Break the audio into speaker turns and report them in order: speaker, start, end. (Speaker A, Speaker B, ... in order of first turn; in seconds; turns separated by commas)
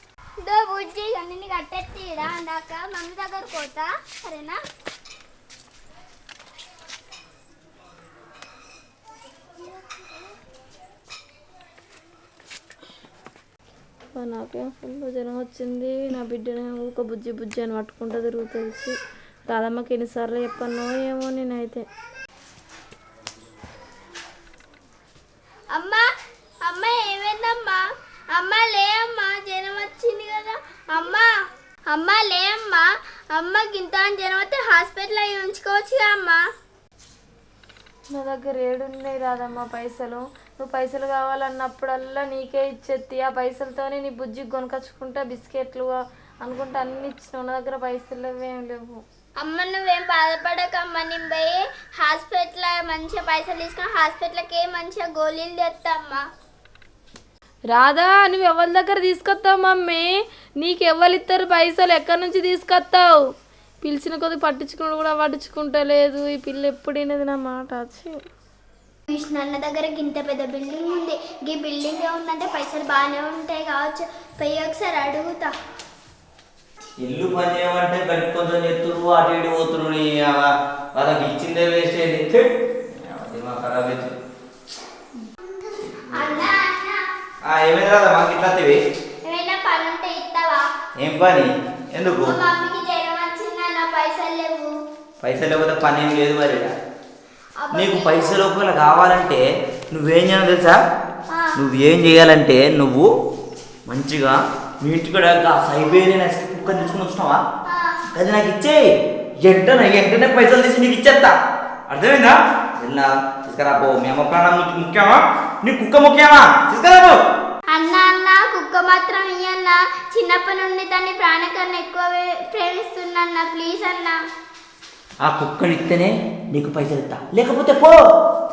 Speaker A: 0.4-4.6, Speaker B: 14.1-18.9, Speaker B: 19.5-21.8, Speaker A: 25.7-26.0, Speaker A: 26.6-31.3, Speaker A: 31.9-36.4, Speaker B: 38.1-49.0, Speaker A: 49.4-56.2, Speaker B: 57.7-63.2, Speaker B: 63.8-68.2, Speaker A: 69.1-75.5, Speaker C: 77.0-84.1, Speaker A: 86.1-87.0, Speaker C: 87.4-88.8, Speaker A: 89.2-90.7, Speaker C: 91.0-92.4, Speaker A: 92.2-94.7, Speaker C: 95.2-96.7, Speaker A: 97.6-98.5, Speaker C: 97.7-100.8, Speaker A: 101.3-101.6, Speaker C: 101.6-103.1, Speaker C: 103.9-107.4, Speaker A: 107.7-108.0, Speaker C: 108.1-108.9, Speaker C: 109.4-111.3, Speaker C: 111.9-117.2, Speaker A: 117.7-124.2, Speaker C: 125.2-128.0